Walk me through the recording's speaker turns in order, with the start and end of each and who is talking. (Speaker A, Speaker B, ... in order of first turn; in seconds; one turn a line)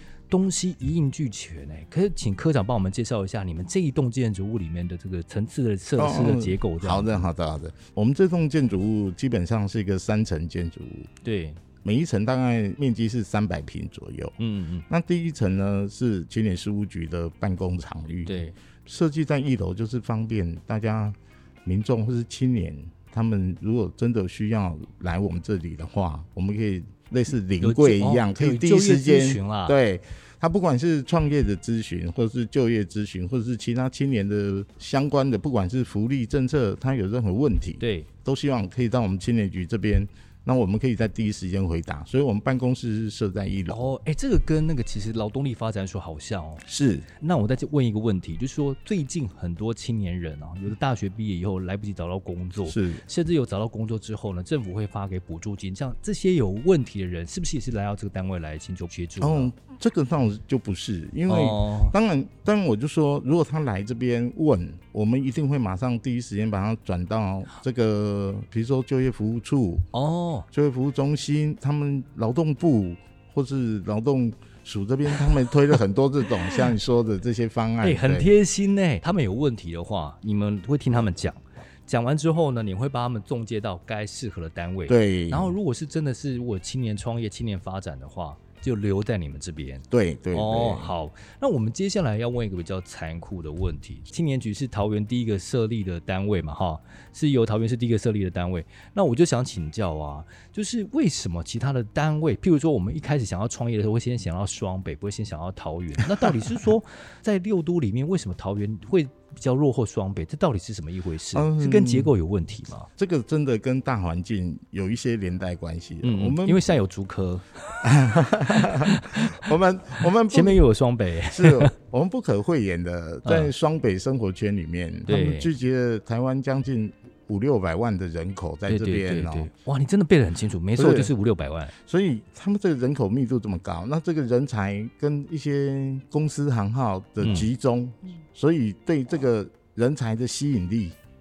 Speaker A: 0.3-7.3
Speaker B: 6.0-11.1
Speaker A: 11.2-11.6
Speaker B: 11.8-14.3
Speaker A: 14.4-14.8
Speaker B: 14.9-43.9
Speaker A: 18.2-18.5
Speaker A: 27.6-29.8
Speaker A: 37.8-38.1
Speaker A: 43.7-46.6
Speaker B: 46.6-47.1
Speaker A: 47.2-59.5
Speaker B: 52.7-53.0
Speaker B: 59.2-69.9
Speaker A: 61.3-61.9
Speaker A: 69.9-70.5
Speaker B: 70.5-78.3
Speaker A: 77.8-112.9
Speaker B: 84.9-85.5
Speaker B: 89.9-90.9
Speaker B: 111.3-112.1
Speaker B: 113.0-116.6
Speaker A: 116.0-117.8
Speaker B: 117.8-120.6
Speaker A: 118.5-119.5
Speaker A: 120.2-121.7
Speaker B: 121.3-129.5
Speaker A: 123.2-123.5
Speaker A: 125.1-125.5
Speaker A: 128.7-131.7
Speaker B: 130.8-131.1
Speaker B: 131.8-140.9
Speaker A: 137.2-137.5